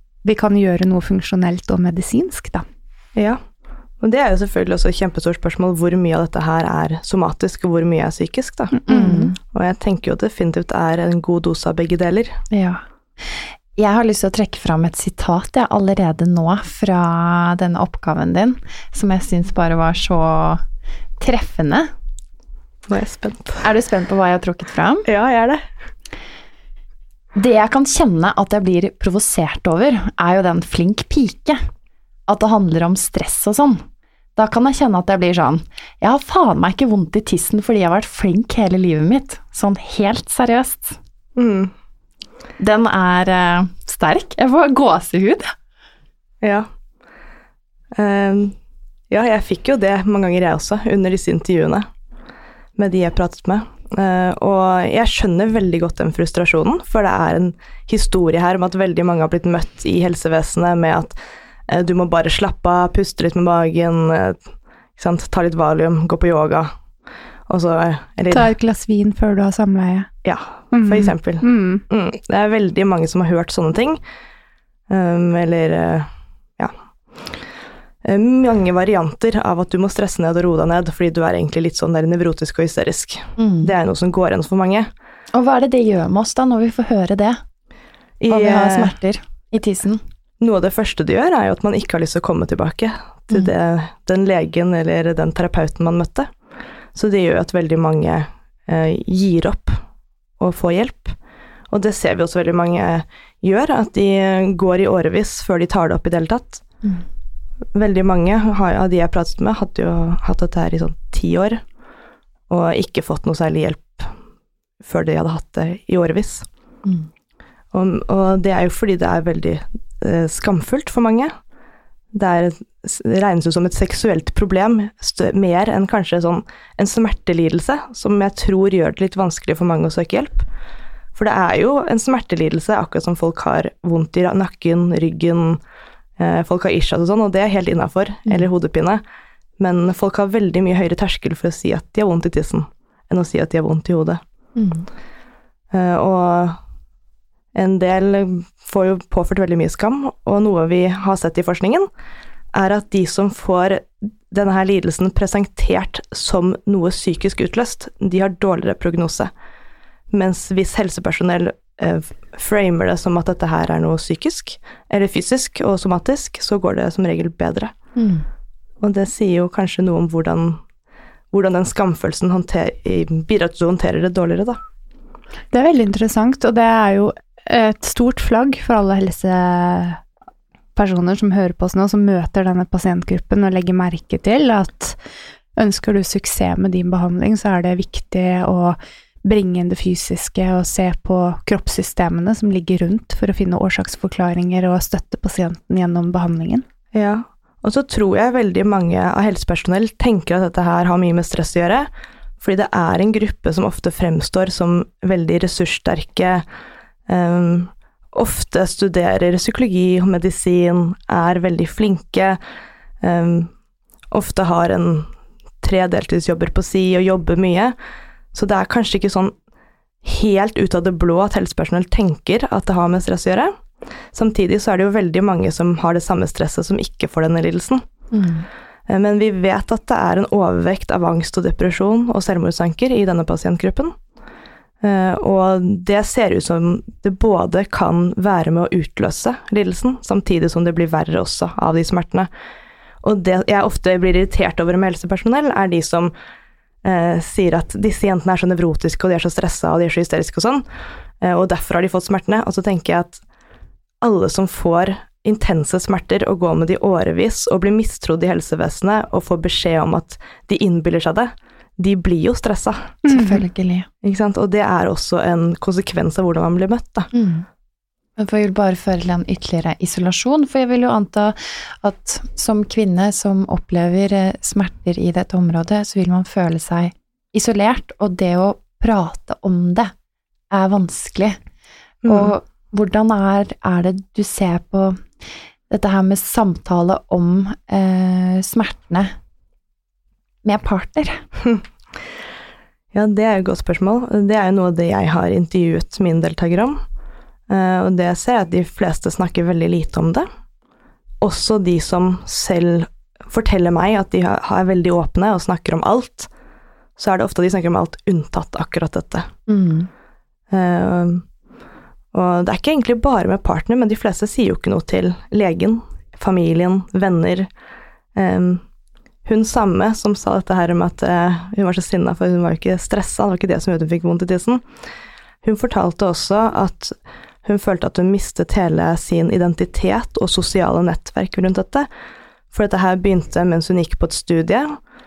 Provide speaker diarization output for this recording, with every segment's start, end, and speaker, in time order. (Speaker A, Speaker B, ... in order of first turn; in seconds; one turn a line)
Speaker A: 0.2-2.6
Speaker B: 3.1-3.4
Speaker B: 4.0-8.8
Speaker A: 8.8-9.3
Speaker C: 8.9-9.3
Speaker B: 9.5-12.4
Speaker C: 12.5-20.6
Speaker C: 21.2-21.9
Speaker B: 22.9-23.6
Speaker C: 23.6-25.1
Speaker B: 25.0-25.6
Speaker C: 27.3-31.7
Speaker C: 32.3-33.8
Speaker C: 34.4-41.0
Speaker B: 41.4-41.7
Speaker C: 42.6-45.5
Speaker B: 46.4-46.7
Speaker B: 48.0-48.5
Speaker B: 49.1-51.9
Speaker B: 52.8-64.4
Speaker B: 65.0-66.7
Speaker B: 67.5-68.5
Speaker A: 68.3-70.1
Speaker B: 70.2-74.0
Speaker A: 70.7-71.8
Speaker B: 74.9-77.4
Speaker B: 78.0-84.9
Speaker C: 83.4-83.7
Speaker C: 85.3-87.4
Speaker B: 88.2-88.9
Speaker C: 88.3-90.0
Speaker B: 90.4-96.3
Speaker B: 96.9-99.8
Speaker B: 100.4-101.2
Speaker B: 101.7-106.6
Speaker B: 107.7-111.6
Speaker B: 112.5-114.1
Speaker B: 114.8-116.5
Speaker C: 116.8-117.1
Speaker B: 117.7-121.3
Speaker B: 122.1-130.5
Speaker B: 131.1-135.6
Speaker B: 136.2-139.0
Speaker B: 139.6-144.2
Speaker C: 144.6-144.9
Speaker B: 145.7-146.6
Speaker B: 147.5-151.9
Speaker B: 152.5-159.3
Speaker B: 160.1-167.7
Speaker C: 167.9-168.2
Speaker B: 168.8-170.6
Speaker B: 171.3-174.6
Speaker A: 175.5-180.0
Speaker A: 180.7-185.0
Speaker A: 185.6-196.6
Speaker B: 196.9-201.9
Speaker B: 202.4-206.4
Speaker B: 207.1-212.4
Speaker B: 213.0-213.5
Speaker B: 214.1-215.1
Speaker B: 215.6-217.7
Speaker B: 218.3-219.3
Speaker B: 220.0-223.5
Speaker B: 224.1-227.8
Speaker C: 228.1-228.5
Speaker B: 228.9-233.9
Speaker B: 234.8-242.3
Speaker B: 243.0-246.1
Speaker B: 246.8-250.6
Speaker B: 251.2-253.2
Speaker B: 254.0-263.0
Speaker A: 263.1-263.4
Speaker C: 263.1-263.9
Speaker B: 264.0-267.1
Speaker C: 267.1-267.4
Speaker C: 268.2-279.9
Speaker C: 280.5-281.4
Speaker B: 282.0-282.3
Speaker C: 282.1-285.1
Speaker C: 285.7-289.1
Speaker C: 290.4-291.2
Speaker B: 292.9-296.8
Speaker B: 297.5-300.2
Speaker B: 301.2-306.3
Speaker B: 307.0-309.3
Speaker C: 309.5-309.9
Speaker B: 310.5-311.2
Speaker B: 312.1-317.5
Speaker B: 318.1-318.6
Speaker B: 319.2-324.6
Speaker B: 325.4-331.9
Speaker B: 332.5-334.8